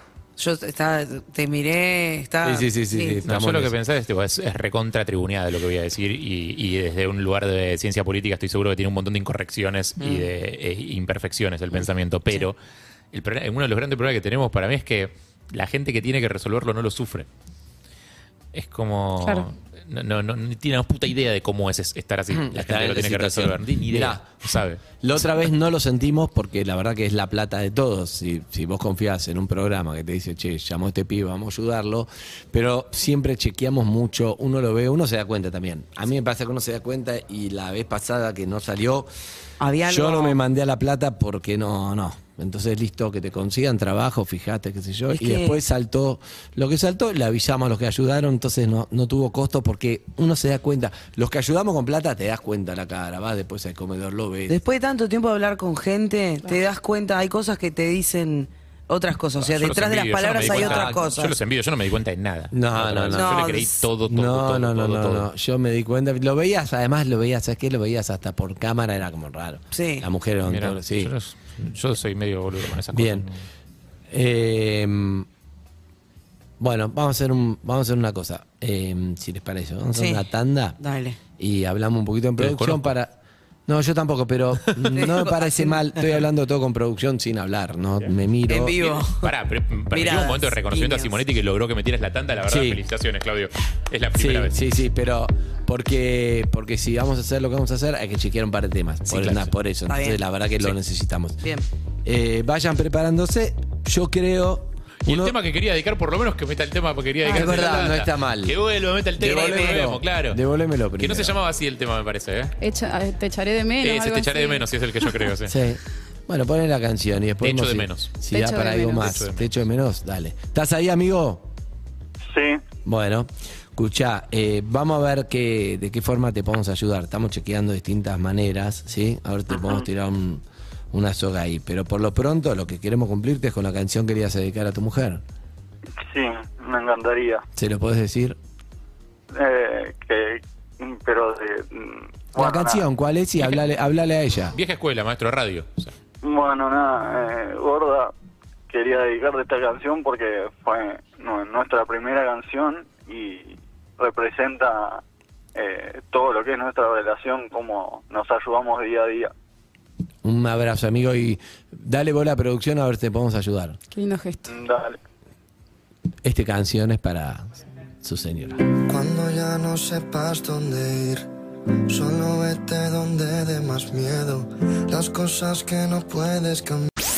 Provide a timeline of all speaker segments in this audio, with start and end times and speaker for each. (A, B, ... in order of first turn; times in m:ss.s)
0:00.4-0:03.2 A
0:02.4-0:03.7 B
0:03.3-0:12.6 C
0:10.0-0:10.3 A
0:13.1-0:17.3 C
0:18.5-0:24.8 C
0:19.2-0:19.5 D
0:22.3-0:24.2 B
0:25.0-0:39.1 B
0:39.6-0:40.4 A
0:39.8-0:54.6 B
0:45.1-0:45.6 A
0:54.5-1:01.4 A
0:59.4-1:05.3 C
1:00.3-1:01.0 B
1:02.5-1:03.5 B
1:03.1-1:03.9 A
1:04.0-1:11.1 B
1:09.7-1:10.0 A
1:10.4-1:13.4 C
1:12.9-1:13.3 B
1:14.1-1:15.2 B
1:16.6-1:20.8 B
1:19.9-1:21.2 A
1:21.4-1:23.2 B
1:22.4-1:22.9 C
1:23.7-1:28.8 B
1:24.7-1:24.9 C
1:24.9-1:25.9 A
1:28.5-1:29.3 A
1:28.8-1:34.6 C
1:29.9-1:31.2 A
1:32.4-1:32.8 B
1:34.1-1:41.4 B
1:39.1-1:39.4 C
1:39.8-1:40.2 A
1:41.4-1:41.6 A
1:42.0-1:45.4 B
1:45.0-1:50.4 C
1:47.2-1:47.7 D
1:47.2-1:48.6 B
1:49.2-1:51.4 B
1:49.2-1:49.8 A
1:51.0-1:52.5 C
1:52.6-1:54.7 D
1:53.8-1:55.5 C
1:55.4-2:01.4 B
1:57.4-1:58.1 C
1:58.3-1:59.2 D
1:59.0-1:59.6 C
2:02.3-2:02.6 E
2:02.8-2:15.2 B
2:09.5-2:09.8 E
2:16.1-2:17.4 E
2:17.6-2:18.4 B
2:19.3-2:22.8 E
2:22.4-2:24.6 B
2:24.5-2:25.9 C
2:26.2-2:28.1 E
2:28.7-2:35.0 E
2:35.5-2:39.3 E
2:40.2-2:43.8 B
2:43.9-2:44.5 D
2:44.5-2:45.0 E
2:46.2-2:48.6 B
2:48.9-2:51.3 F
2:51.9-2:56.9 F